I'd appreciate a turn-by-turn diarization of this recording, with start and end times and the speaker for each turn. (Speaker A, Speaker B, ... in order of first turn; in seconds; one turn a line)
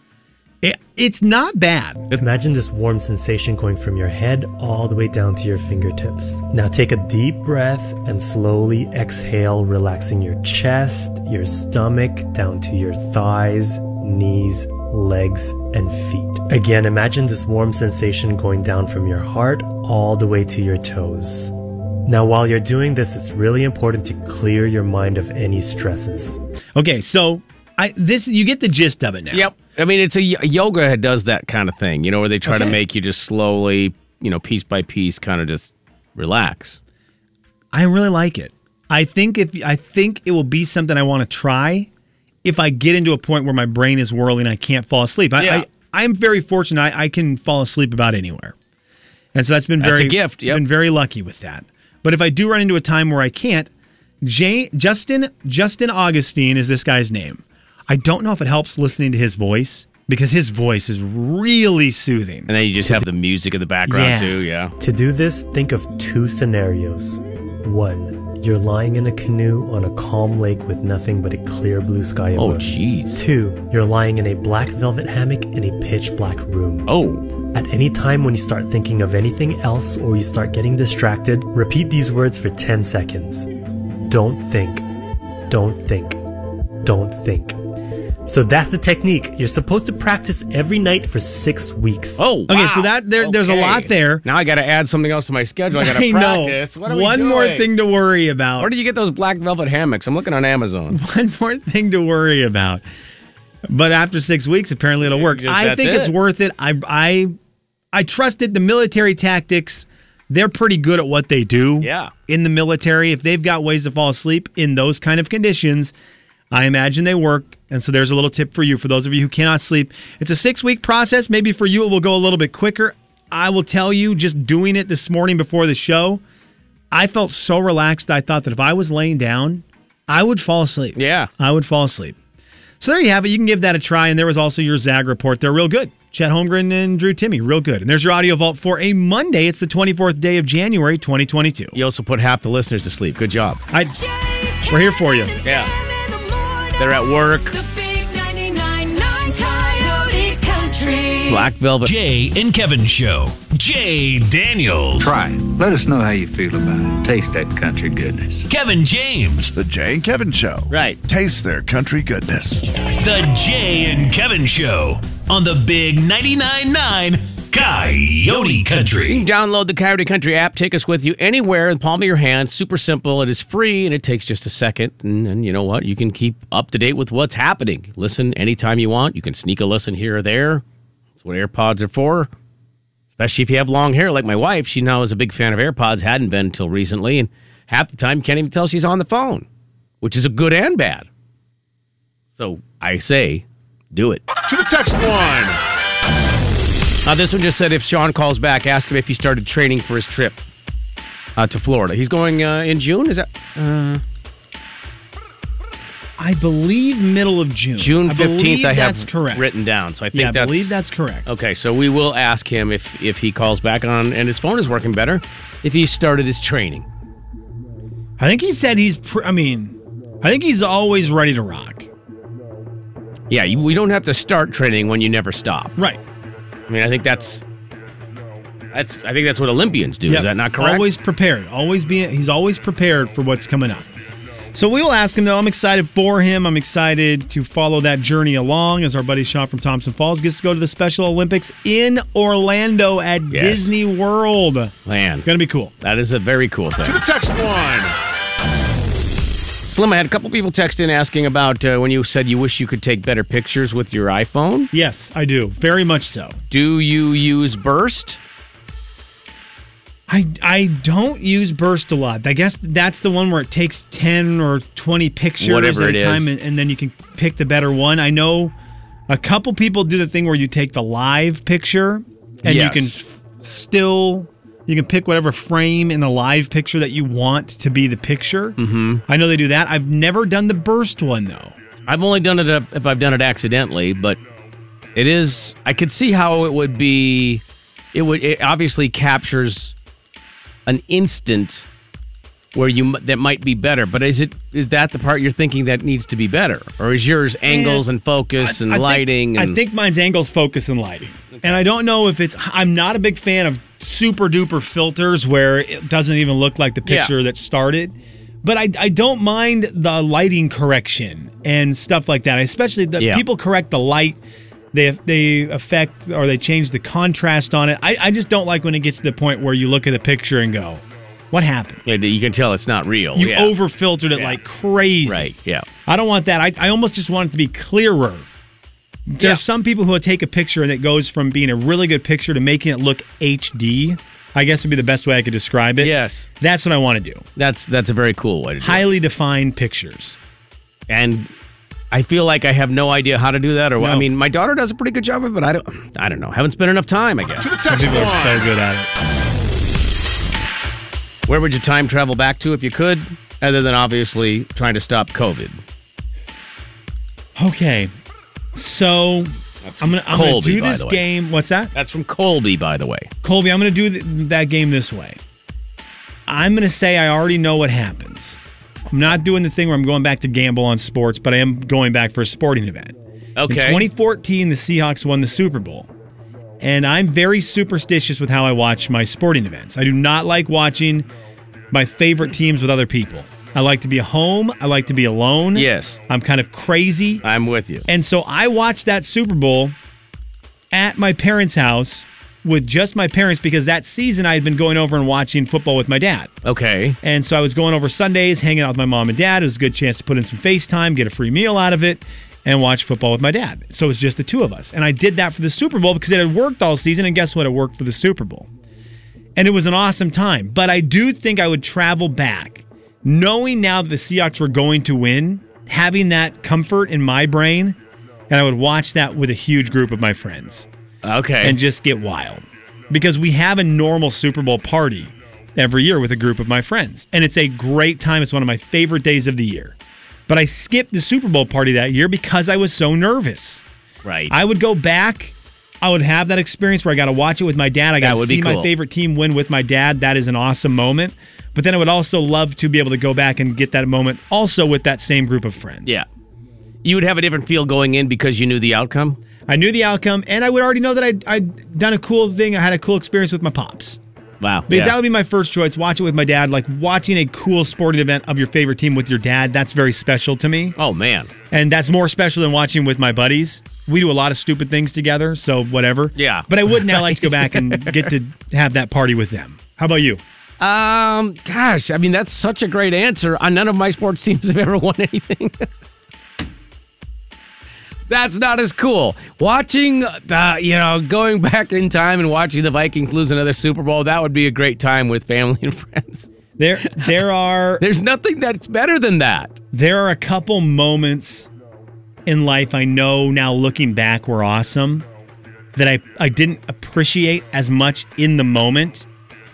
Speaker A: 0.6-2.1
Speaker B: 2.2-21.5
Speaker B: 22.0-26.4
Speaker A: 26.7-29.5
Speaker C: 29.3-36.8
Speaker A: 32.5-32.8
Speaker A: 37.7-41.9
Speaker A: 42.4-48.5
Speaker C: 45.4-45.6
Speaker A: 49.3-53.7
Speaker C: 49.8-50.6
Speaker A: 54.2-62.5
Speaker C: 62.5-64.7
Speaker A: 63.9-64.4
Speaker B: 64.8-76.9
Speaker C: 72.3-73.2
Speaker C: 76.9-77.2
Speaker B: 77.5-83.5
Speaker B: 84.0-84.8
Speaker B: 85.5-86.2
Speaker B: 86.8-87.6
Speaker B: 88.2-92.2
Speaker C: 92.2-97.7
Speaker A: 92.5-94.2
Speaker A: 95.7-98.7
Speaker C: 98.6-101.0
Speaker A: 100.9-102.8
Speaker A: 103.7-107.3
Speaker C: 105.0-106.1
Speaker A: 107.9-115.9
Speaker C: 111.8-112.1
Speaker A: 116.5-126.2
Speaker A: 126.9-132.2
Speaker C: 130.9-131.3
Speaker A: 132.8-141.8
Speaker C: 141.7-143.6
Speaker A: 143.7-144.0
Speaker D: 144.1-144.7
Speaker A: 144.7-145.4
Speaker C: 145.4-145.7
Speaker D: 146.3-146.9
Speaker C: 146.8-147.5
Speaker D: 147.5-151.4
Speaker C: 151.3-151.9
Speaker E: 151.8-155.1
Speaker F: 155.0-158.5
Speaker E: 158.5-159.5
Speaker G: 159.5-162.6
Speaker C: 160.7-161.0
Speaker E: 162.9-169.2
Speaker C: 169.1-180.6
Speaker C: 181.2-182.3
Speaker C: 183.2-189.4
Speaker C: 190.0-191.1
Speaker C: 192.3-194.2
Speaker G: 194.5-195.6
Speaker C: 197.0-200.4
Speaker C: 201.4-204.0
Speaker A: 206.2-209.6
Speaker C: 207.8-210.7
Speaker A: 210.1-211.3
Speaker C: 211.2-216.8
Speaker A: 218.2-221.9
Speaker C: 223.3-225.7
Speaker C: 226.7-227.4
Speaker C: 228.7-230.9
Speaker A: 230.1-233.9
Speaker A: 234.5-244.7
Speaker C: 243.3-243.7
Speaker C: 244.8-245.2
Speaker A: 245.2-245.7
Speaker C: 245.8-247.0
Speaker G: 246.8-247.9
Speaker C: 249.6-254.7
Speaker A: 254.7-256.4
Speaker C: 256.5-258.2
Speaker A: 260.1-268.5
Speaker C: 265.4-266.3
Speaker A: 269.1-281.6
Speaker C: 272.4-272.9
Speaker C: 278.6-279.0
Speaker C: 281.9-284.2
Speaker C: 284.9-287.4
Speaker C: 287.9-289.7
Speaker C: 290.6-291.6
Speaker C: 292.5-299.6
Speaker A: 297.5-297.9
Speaker A: 298.4-314.2
Speaker C: 301.3-301.6
Speaker C: 306.9-307.1
Speaker A: 314.7-321.8
Speaker C: 321.9-323.5
Speaker A: 323.1-325.3
Speaker C: 325.1-325.6
Speaker A: 325.9-328.3
Speaker A: 329.1-337.2
Speaker C: 335.8-336.3
Speaker C: 337.4-338.8
Speaker A: 338.6-340.2
Speaker C: 340.9-341.3
Speaker C: 341.9-347.6
Speaker A: 343.8-344.1
Speaker G: 347.4-348.5
Speaker A: 347.6-348.9
Speaker C: 351.3-355.6
Speaker A: 357.4-357.9
Speaker A: 358.5-361.7
Speaker C: 359.6-361.0
Speaker C: 361.7-363.1
Speaker A: 363.2-365.2
Speaker A: 366.2-368.4
Speaker A: 368.9-372.9
Speaker C: 373.4-373.9
Speaker A: 373.5-375.9
Speaker A: 376.6-381.1
Speaker A: 381.7-387.2
Speaker C: 385.5-386.0
Speaker C: 387.2-387.9
Speaker A: 387.9-389.8
Speaker A: 390.7-396.3
Speaker C: 396.4-397.0
Speaker A: 397.0-408.5
Speaker A: 409.4-417.8
Speaker A: 418.3-420.7
Speaker C: 421.0-421.6
Speaker A: 421.4-429.8
Speaker A: 430.3-433.6
Speaker C: 434.0-434.3
Speaker A: 434.3-446.0
Speaker C: 438.0-438.7
Speaker C: 446.8-449.2
Speaker A: 449.5-454.0
Speaker C: 454.4-454.9
Speaker A: 454.7-460.8
Speaker C: 460.8-461.3
Speaker A: 461.5-470.2
Speaker C: 466.1-468.1
Speaker C: 470.6-475.7
Speaker C: 478.1-486.3
Speaker A: 486.6-487.8
Speaker C: 486.8-487.1
Speaker C: 487.8-489.6
Speaker A: 489.7-491.5
Speaker A: 492.2-495.1
Speaker A: 495.7-499.1